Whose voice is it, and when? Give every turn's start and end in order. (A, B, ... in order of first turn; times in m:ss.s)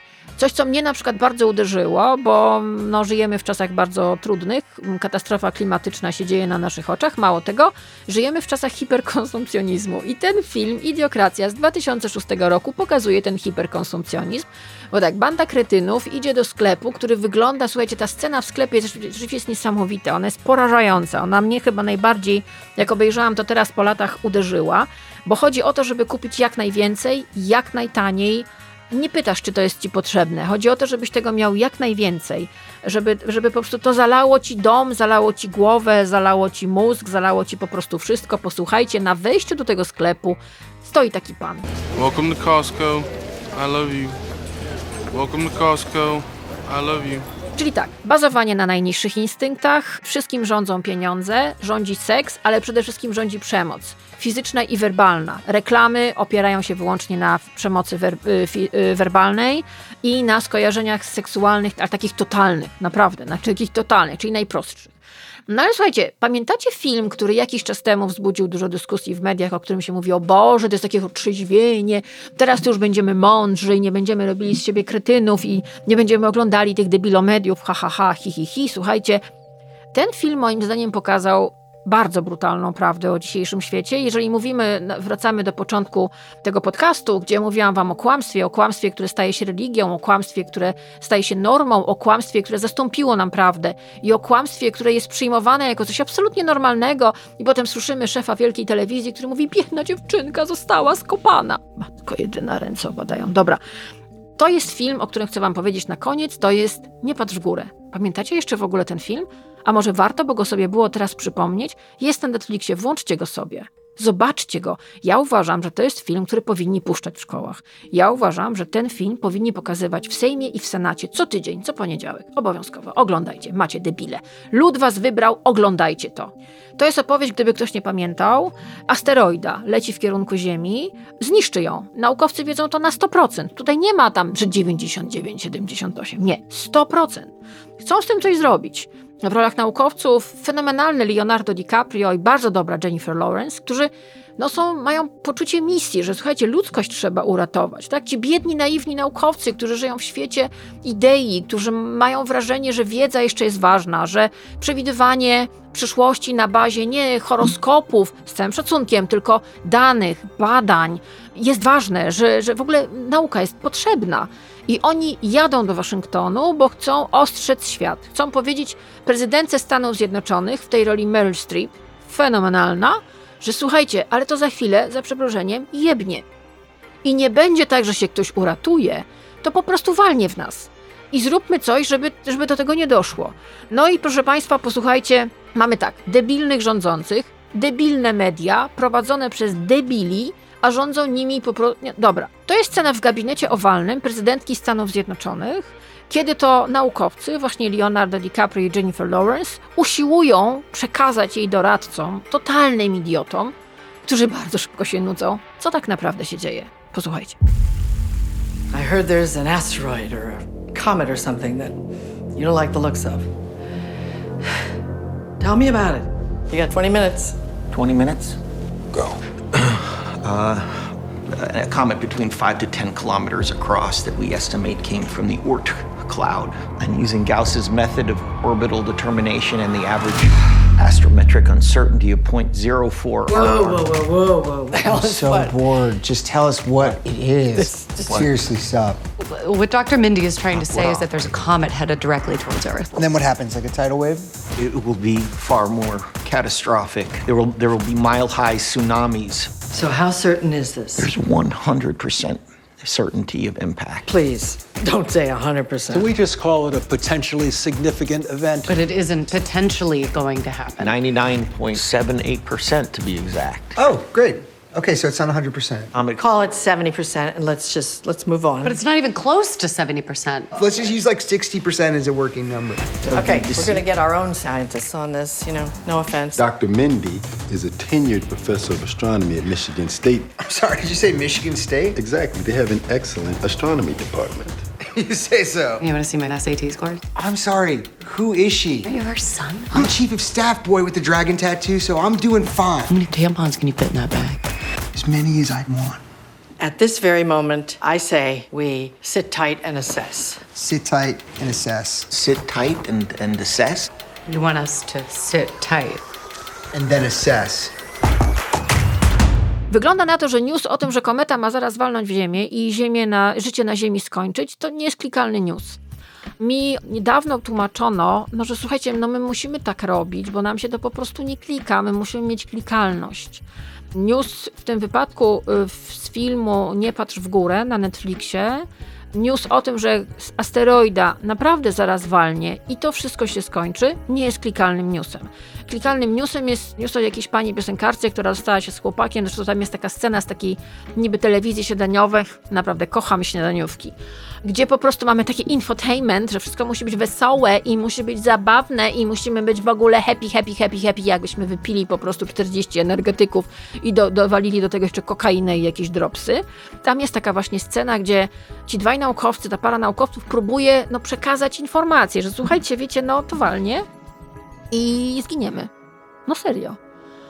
0:00.4-0:41.7 A
0:42.0-0:44.2 B
0:45.1-0:47.3 B
0:47.6-1:04.9 A
1:05.5-1:19.2 A
1:19.9-1:43.6 A
1:44.4-2:56.2 A
2:57.0-3:23.5 A
3:24.0-3:27.4 A
3:28.7-3:31.8 C
3:32.3-3:33.3 C
3:35.4-3:37.4 C
3:37.7-3:38.4 D
3:39.6-3:53.8 D
3:53.3-3:55.6 C
3:54.7-3:59.0 E
3:57.5-3:58.3 C
3:59.2-4:02.9 F
4:00.6-4:01.0 C
4:03.0-4:04.3 E
4:04.6-4:09.6 D
4:09.7-4:11.1 C
4:11.0-4:14.1 D
4:14.1-4:16.1 C
4:15.9-4:18.7 G
4:18.7-4:20.9 F
4:20.8-4:23.8 D
4:23.8-4:25.9 E
4:25.9-4:26.3 D
4:26.2-4:28.8 C
4:28.6-4:30.5 F
4:30.5-4:33.6 E
4:33.0-4:36.4 C
4:33.1-4:33.8 D
4:36.4-4:40.4 H
4:40.4-4:42.0 E
4:41.9-4:44.6 H
4:44.9-4:45.8 E
4:45.8-4:47.0 F
4:47.1-4:48.9 E
4:48.8-4:49.9 F
4:49.7-4:52.9 E
4:52.9-4:54.4 F
4:54.9-4:56.0 E
4:56.6-5:00.4 C
5:00.5-5:02.1 E
5:02.1-5:03.9 D
5:04.3-5:06.0 F
5:06.7-5:07.7 E
5:09.7-5:15.8 A
5:16.4-5:23.4 A
5:23.9-6:03.8 A
6:04.7-6:05.7 A
6:06.3-6:06.8 A